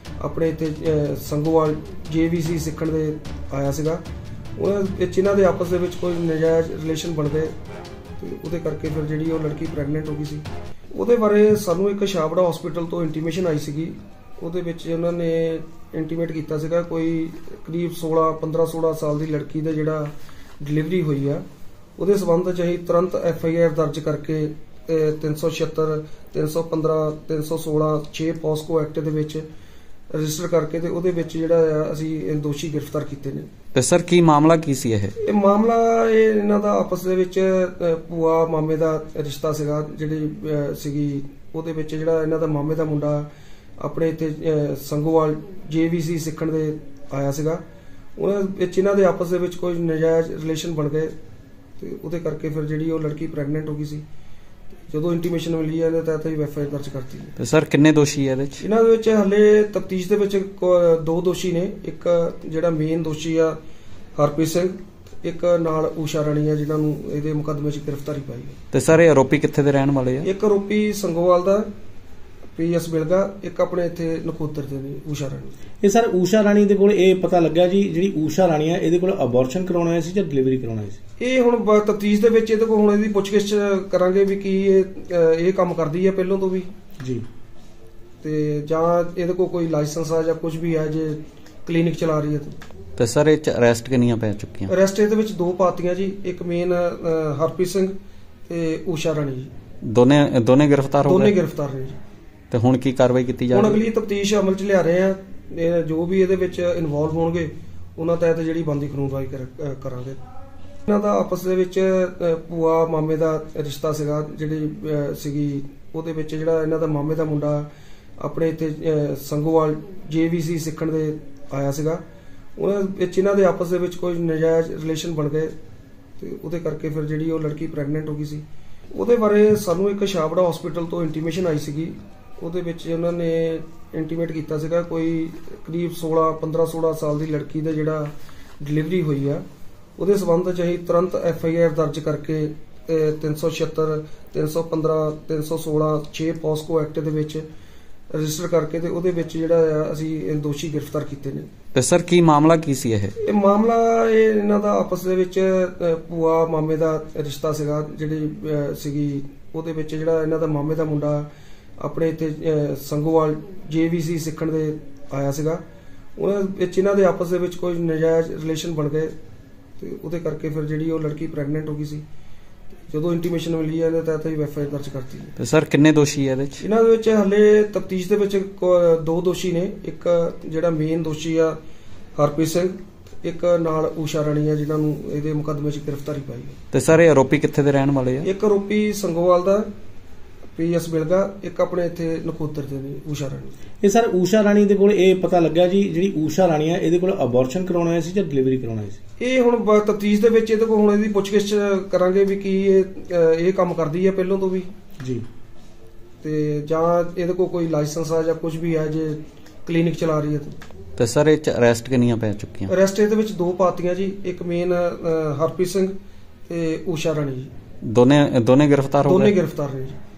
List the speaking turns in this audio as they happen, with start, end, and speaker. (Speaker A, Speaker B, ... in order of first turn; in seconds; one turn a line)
Speaker A: 0.2-4.0
Speaker A: 4.6-7.5
Speaker A: 8.2-21.4
Speaker A: 22.0-29.4
Speaker A: 30.1-33.5
Speaker B: 33.7-35.1
Speaker A: 35.2-47.6
Speaker A: 48.2-51.1
Speaker A: 51.8-54.0
Speaker A: 54.9-57.4
Speaker B: 57.4-58.6
Speaker A: 58.6-63.6
Speaker A: 64.2-68.6
Speaker B: 68.7-70.3
Speaker A: 70.2-71.7
Speaker A: 72.5-75.5
Speaker C: 75.8-81.0
Speaker A: 81.2-86.7
Speaker C: 87.0-87.2
Speaker A: 88.2-92.6
Speaker B: 93.0-94.7
Speaker A: 94.7-97.9
Speaker A: 98.5-99.5
Speaker B: 99.8-101.3
Speaker A: 101.0-102.0
Speaker B: 102.5-103.8
Speaker A: 103.5-110.2
Speaker A: 110.9-122.0
Speaker A: 122.6-125.5
Speaker A: 126.2-139.4
Speaker A: 140.0-147.4
Speaker A: 148.1-151.5
Speaker B: 151.7-153.1
Speaker A: 153.2-161.3
Speaker A: 161.8-165.6
Speaker A: 166.2-169.1
Speaker A: 169.8-172.0
Speaker A: 172.9-175.3
Speaker B: 175.4-176.6
Speaker A: 176.6-181.6
Speaker A: 182.2-186.6
Speaker B: 186.7-188.3
Speaker A: 188.2-189.7
Speaker A: 190.6-193.5
Speaker C: 193.8-199.0
Speaker A: 199.2-204.7
Speaker C: 205.0-205.2
Speaker A: 206.2-210.6
Speaker B: 211.0-212.7
Speaker A: 212.7-215.9
Speaker A: 216.5-217.5
Speaker B: 217.8-219.3
Speaker A: 219.0-220.0